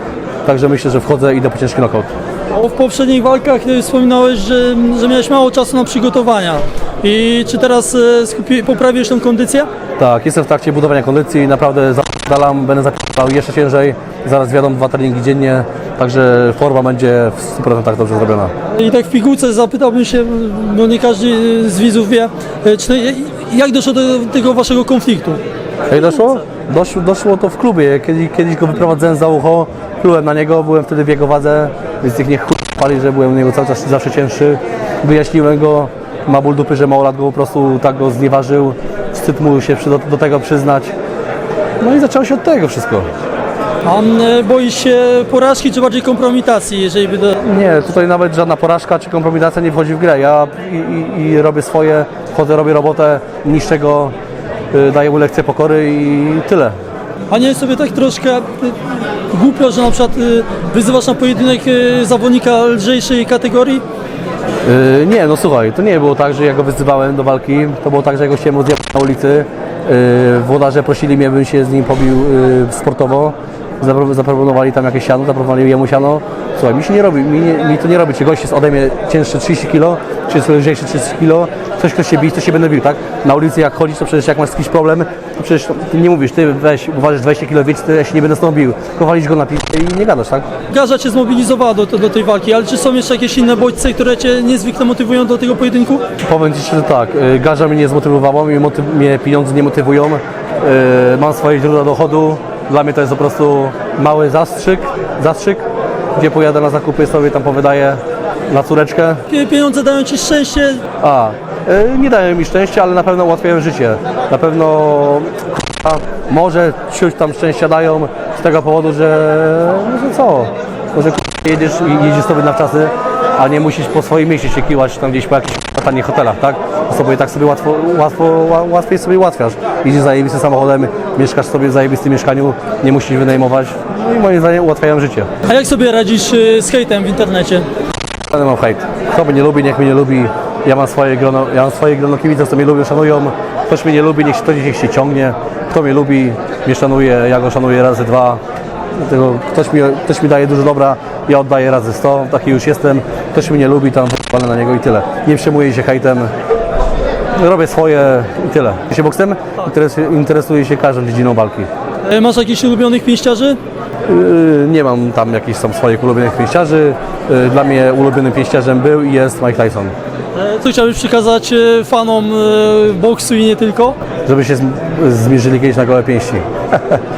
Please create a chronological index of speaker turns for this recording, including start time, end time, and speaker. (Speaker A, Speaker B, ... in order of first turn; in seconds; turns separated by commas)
Speaker A: 0.5-2.1, Speaker B: 2.5-9.7, Speaker A: 10.0-18.5, Speaker B: 18.7-25.4, Speaker A: 25.9-40.9, Speaker A: 41.8-43.1, Speaker B: 43.8-47.4, Speaker A: 47.4-54.1, Speaker A: 54.7-56.7, Speaker B: 57.3-58.8, Speaker B: 59.3-63.8, Speaker A: 64.7-90.5, Speaker B: 90.7-96.0, Speaker A: 96.2-105.6, Speaker A: 106.2-109.2, Speaker B: 109.3-110.8, Speaker A: 111.0-135.3, Speaker B: 135.4-137.7, Speaker A: 138.3-148.4, Speaker A: 149.0-156.3, Speaker A: 157.3-161.7, Speaker B: 162.1-163.6, Speaker A: 164.1-169.9, Speaker B: 170.3-174.0, Speaker A: 174.2-177.0